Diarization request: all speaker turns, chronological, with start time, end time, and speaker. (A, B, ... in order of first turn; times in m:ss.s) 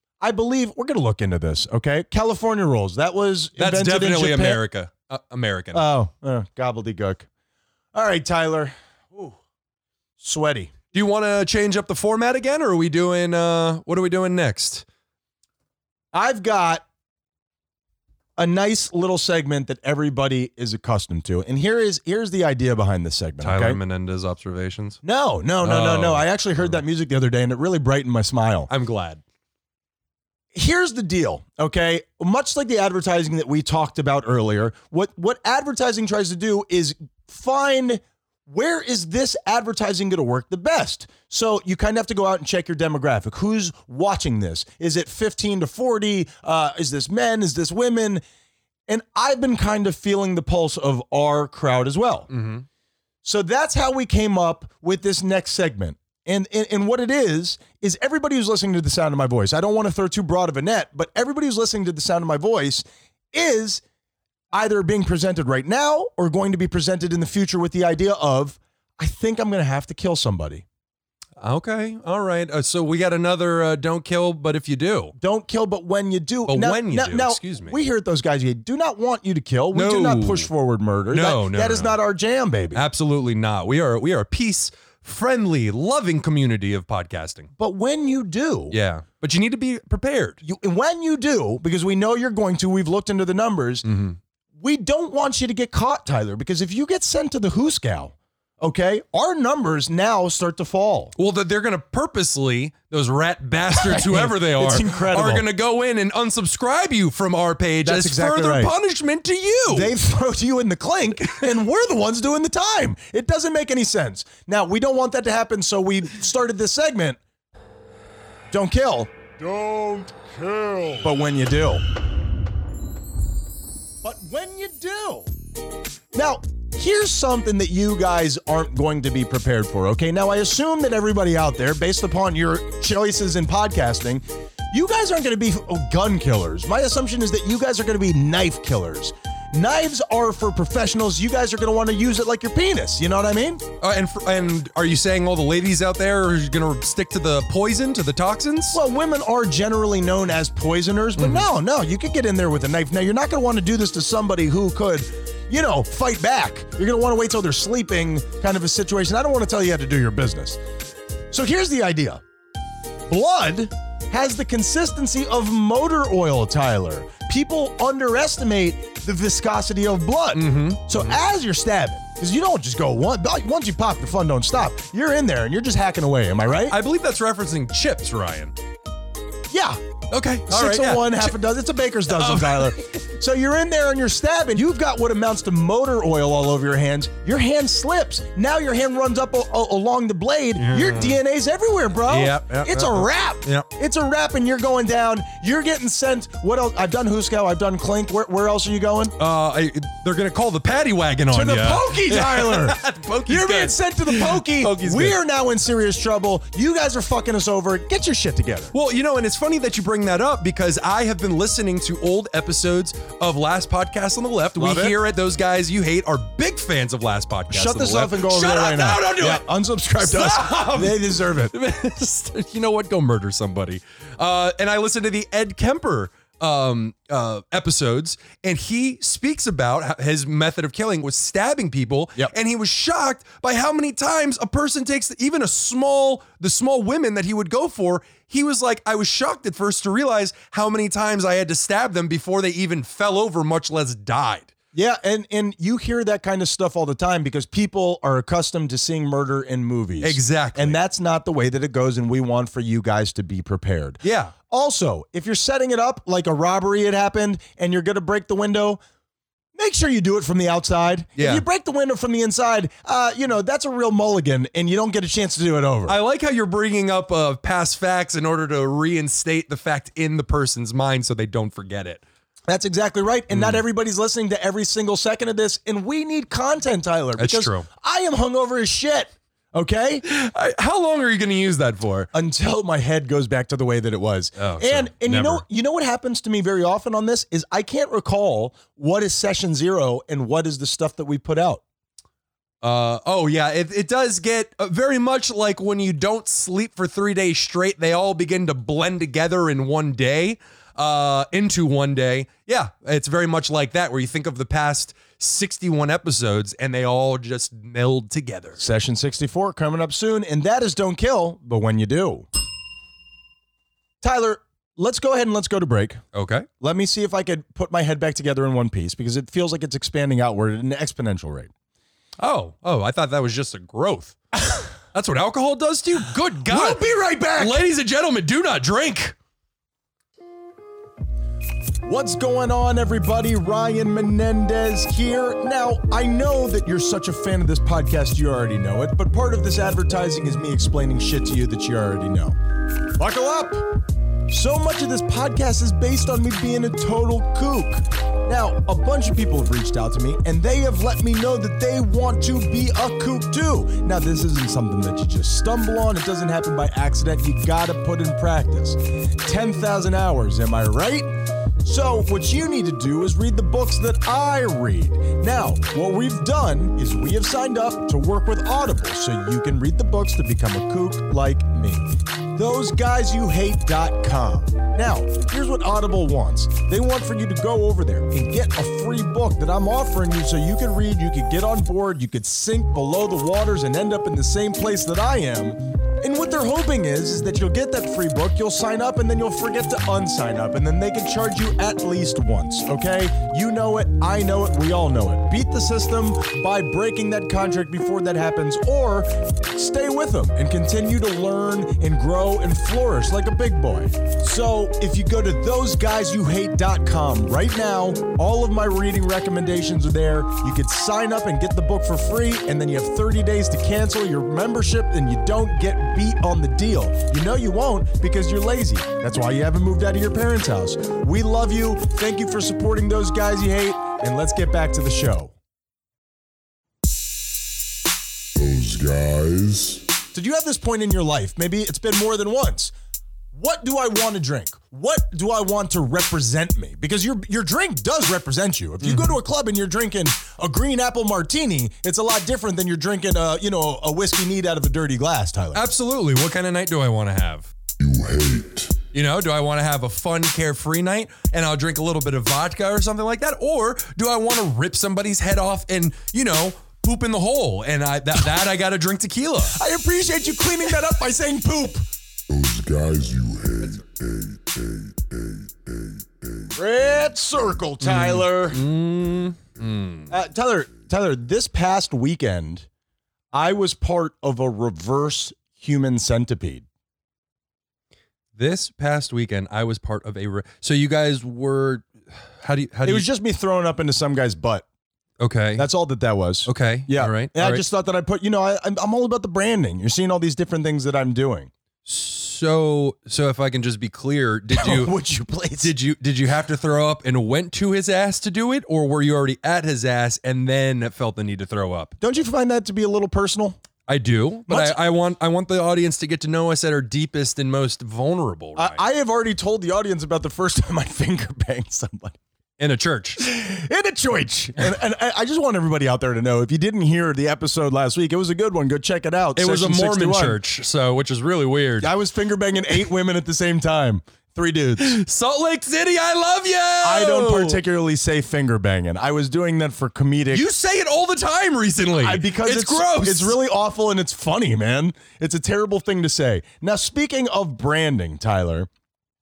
0:00.2-0:04.6 A
0:03.6-0:05.8 B
0:05.7-0:07.3 A
0:07.9-0:09.4 A
0:10.2-0:10.7 A
0:10.9-0:14.8 B
0:16.1-0:16.8 A
0:18.4-0:23.8 A
0:23.4-0:25.0 B
0:25.0-0:28.7 A
0:25.6-0:26.8 B
0:28.7-0:29.2 B
0:30.5-0:48.2 A
0:48.9-0:52.3 A
0:52.3-0:52.6 B
0:53.2-1:03.8 A
1:04.5-1:10.6 A
1:11.4-1:15.1 B
1:15.2-1:22.9 A
1:16.5-1:17.8 B
1:19.7-1:20.5 B
1:21.1-1:22.0 B
1:22.7-1:27.5 B
1:27.6-1:28.8 A
1:28.7-1:30.4 B
1:30.4-1:33.9 A
1:33.9-1:34.2 B
1:34.6-1:41.1 A
1:41.2-1:49.9 B
1:43.8-1:45.4 A
1:47.8-1:48.7 A
1:49.7-1:57.2 A
1:58.5-2:00.1 A
2:00.2-2:00.9 C
2:01.0-2:01.8 A
2:04.0-2:05.3 A
2:06.1-2:23.6 A
2:23.8-2:28.8 B
2:28.7-2:40.6 A
2:31.2-2:31.5 B
2:41.3-2:42.2 A
2:43.1-2:56.8 A
2:50.3-2:51.2 B
2:56.6-2:58.6 B
2:59.5-2:59.8 A
3:00.1-3:01.4 B
3:00.5-3:19.2 A
3:02.1-3:02.8 B
3:10.6-3:11.2 B
3:12.1-3:13.7 B
3:19.2-3:25.2 B
3:21.3-3:28.7 A
3:28.7-3:39.4 B
3:34.6-3:35.0 A
3:37.5-3:41.5 A
3:40.0-4:04.5 B
4:04.7-4:18.8 A
4:10.0-4:10.8 B
4:14.0-4:14.3 B
4:19.6-4:26.0 A
4:21.2-4:21.4 B
4:25.9-4:32.0 B
4:32.5-4:40.0 A
4:33.3-4:33.6 B
4:37.2-4:37.7 B
4:40.0-4:42.1 B
4:42.1-4:51.6 A
4:44.4-4:45.4 B
4:52.6-5:08.6 B
5:08.6-5:12.3 A
5:14.0-5:16.0 A
5:16.1-5:16.5 B
5:16.6-5:21.5 A
5:22.2-5:24.2 B
5:24.9-5:29.2 B
5:26.4-5:27.6 A
5:31.8-5:42.4 A
5:43.0-5:43.6 A
5:44.3-6:01.1 A
6:01.6-7:05.3 A
7:08.4-7:09.9 C
7:10.1-7:12.7 A
7:13.3-7:25.6 A
7:18.8-7:19.2 B
7:25.5-7:27.5 B
7:27.8-7:28.8 C
7:28.9-7:39.6 B
7:39.5-7:41.9 A
7:42.3-7:46.6 C
7:46.5-7:48.7 A
7:47.8-7:50.1 B
7:50.1-7:52.7 A
7:53.3-7:56.6 A
7:58.4-8:03.1 B
8:02.8-8:04.6 A
8:05.2-8:05.7 B
8:05.6-8:11.5 A
8:06.5-8:07.6 B
8:11.9-8:14.9 B
8:14.5-8:15.7 A
8:15.6-8:21.9 B
8:22.0-8:23.6 A
8:23.9-8:28.8 B
8:24.5-8:24.8 A
8:28.6-8:32.2 A
8:32.6-8:33.2 B
8:33.2-8:40.4 A
8:39.4-8:41.9 B
8:41.8-8:45.0 A
8:44.8-8:47.6 B
8:46.8-8:50.4 A
8:50.3-8:53.4 B
8:52.0-8:58.7 A